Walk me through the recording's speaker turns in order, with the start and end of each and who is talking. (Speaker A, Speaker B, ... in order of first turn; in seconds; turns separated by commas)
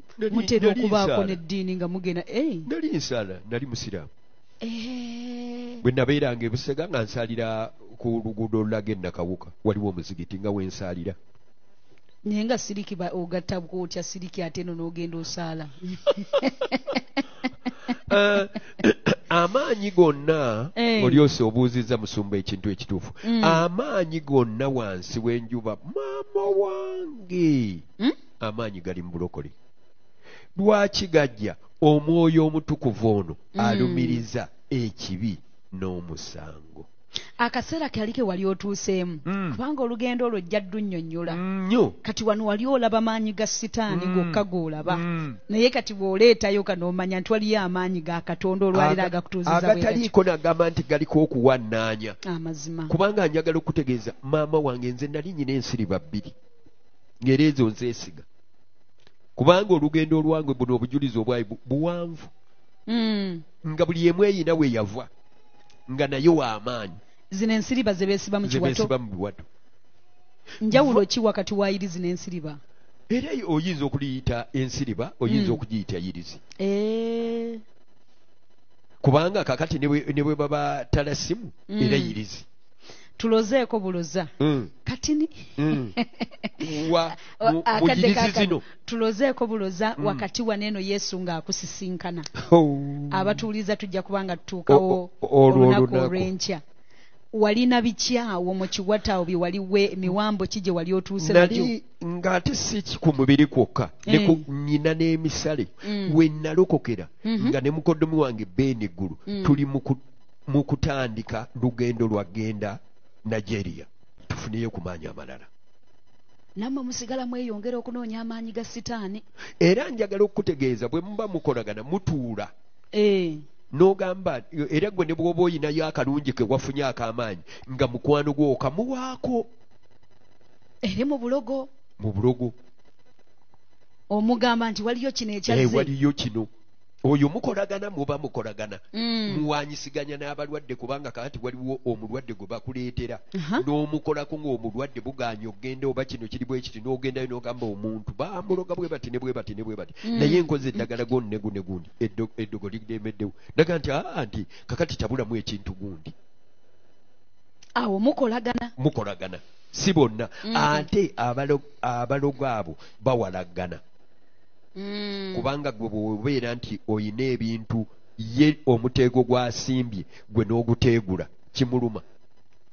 Speaker A: 0.2-1.4, Speaker B: 0.3-2.7, Speaker A: 2.7-4.1, Speaker B: 4.6-5.8, Speaker A: 5.8-11.2, Speaker B: 12.2-18.4, Speaker A: 17.9-27.9, Speaker B: 20.8-21.2, Speaker B: 23.2-23.6, Speaker A: 28.4-29.6, Speaker A: 30.6-36.9, Speaker B: 33.5-34.2, Speaker B: 37.4-41.4, Speaker A: 39.3-39.6, Speaker A: 41.3-42.0, Speaker B: 42.0-50.1, Speaker A: 43.9-45.4, Speaker A: 48.7-52.2, Speaker B: 52.2-53.0, Speaker A: 52.9-56.4, Speaker A: 57.2-58.3, Speaker A: 59.4-62.3, Speaker B: 62.9-63.5, Speaker A: 63.6-65.1, Speaker A: 65.9-67.0, Speaker B: 67.3-68.9, Speaker A: 68.4-69.5, Speaker B: 70.6-72.6, Speaker A: 70.7-71.1, Speaker A: 73.1-76.4, Speaker B: 75.3-75.6, Speaker B: 76.6-77.6, Speaker A: 79.0-82.5, Speaker B: 81.7-82.2, Speaker B: 83.2-92.3, Speaker A: 84.4-84.7, Speaker A: 85.6-86.0, Speaker A: 86.6-88.6, Speaker A: 90.0-90.3, Speaker A: 92.3-93.5, Speaker B: 93.1-96.6, Speaker A: 94.7-96.3, Speaker B: 97.3-101.7, Speaker A: 101.2-115.5, Speaker B: 104.0-104.5, Speaker B: 105.8-106.2, Speaker B: 107.2-107.6, Speaker B: 109.3-109.6, Speaker B: 116.6-119.2, Speaker A: 119.6-122.5, Speaker B: 122.9-123.4, Speaker A: 123.7-129.5, Speaker B: 130.8-131.7, Speaker A: 132.0-132.6, Speaker B: 134.1-135.9, Speaker A: 135.5-136.5, Speaker A: 137.0-156.2, Speaker B: 138.9-139.5, Speaker B: 143.3-143.7, Speaker B: 150.0-150.8, Speaker B: 157.8-158.7, Speaker A: 158.8-163.8, Speaker B: 160.4-160.9, Speaker B: 164.8-165.5, Speaker A: 165.3-172.0